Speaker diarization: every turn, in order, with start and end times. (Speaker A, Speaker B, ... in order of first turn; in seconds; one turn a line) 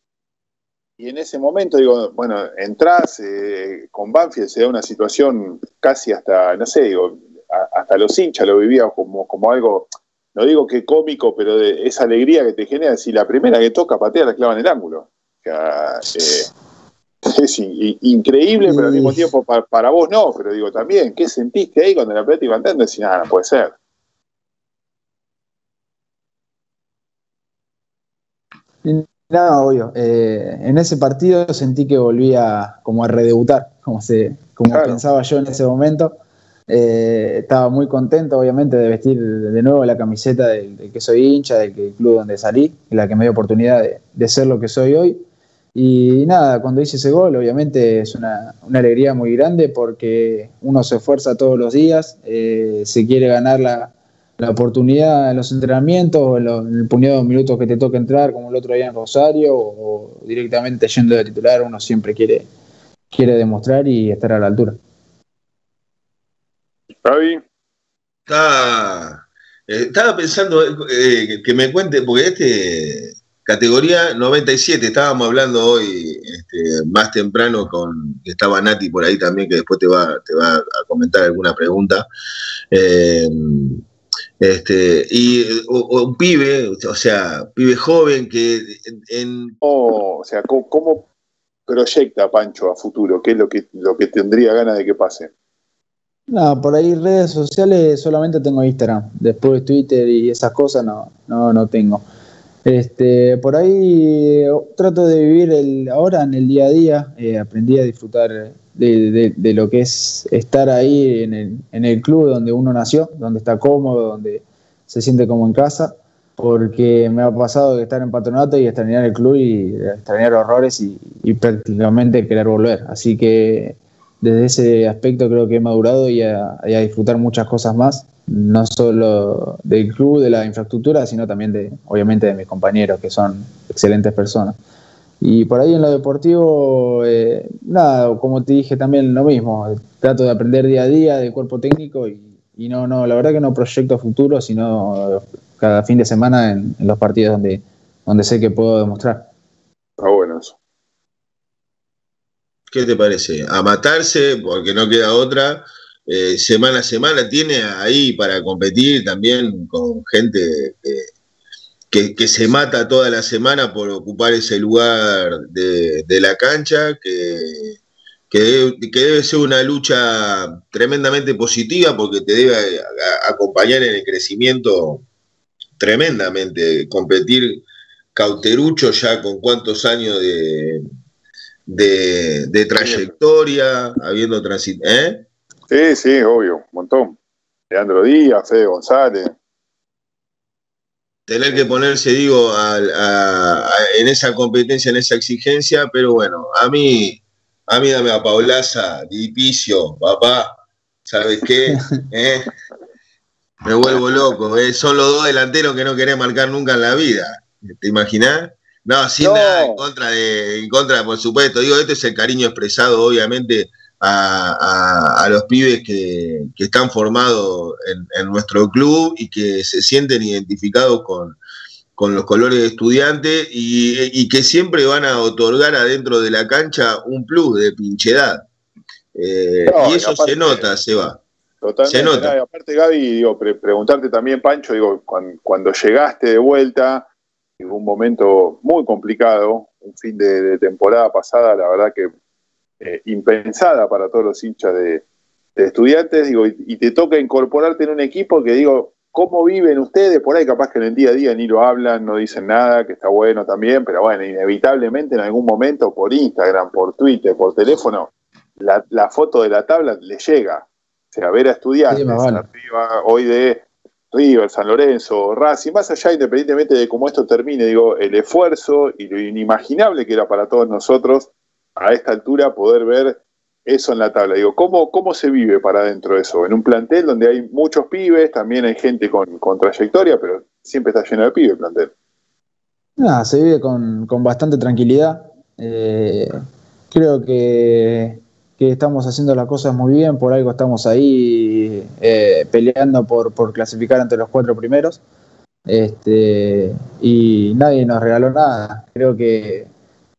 Speaker A: 1.0-16.5
Speaker A: 17.3-23.7
Speaker B: 18.7-19.2
Speaker B: 28.8-36.1
Speaker A: 34.7-35.0
Speaker B: 36.7-45.2
Speaker B: 45.7-62.5
Speaker B: 63.1-64.8
Speaker A: 67.0-67.4
Speaker C: 68.3-82.1
Speaker C: 82.7-83.8
Speaker C: 84.4-89.5
Speaker A: 89.6-91.1
Speaker A: 91.7-95.3
Speaker B: 96.3-102.0
Speaker B: 102.6-134.6
Speaker B: 135.2-149.2
Speaker A: 150.0-150.6
Speaker C: 152.7-161.1
Speaker C: 161.9-167.8
Speaker C: 168.3-175.1
Speaker C: 175.8-180.8
Speaker C: 181.7-185.2
Speaker A: 182.8-183.1
Speaker A: 185.7-187.2
Speaker A: 187.7-189.3
Speaker C: 191.3-202.5
Speaker C: 203.7-221.4
Speaker A: 209.2-209.8
Speaker C: 222.0-228.5
Speaker C: 229.1-231.2
Speaker A: 229.7-230.6
Speaker A: 231.6-237.1
Speaker C: 231.9-232.3
Speaker A: 237.6-242.1
Speaker A: 242.8-245.0
Speaker A: 245.6-281.9
Speaker B: 261.9-262.4
Speaker B: 283.0-286.4
Speaker B: 286.9-295.0
Speaker B: 295.7-299.7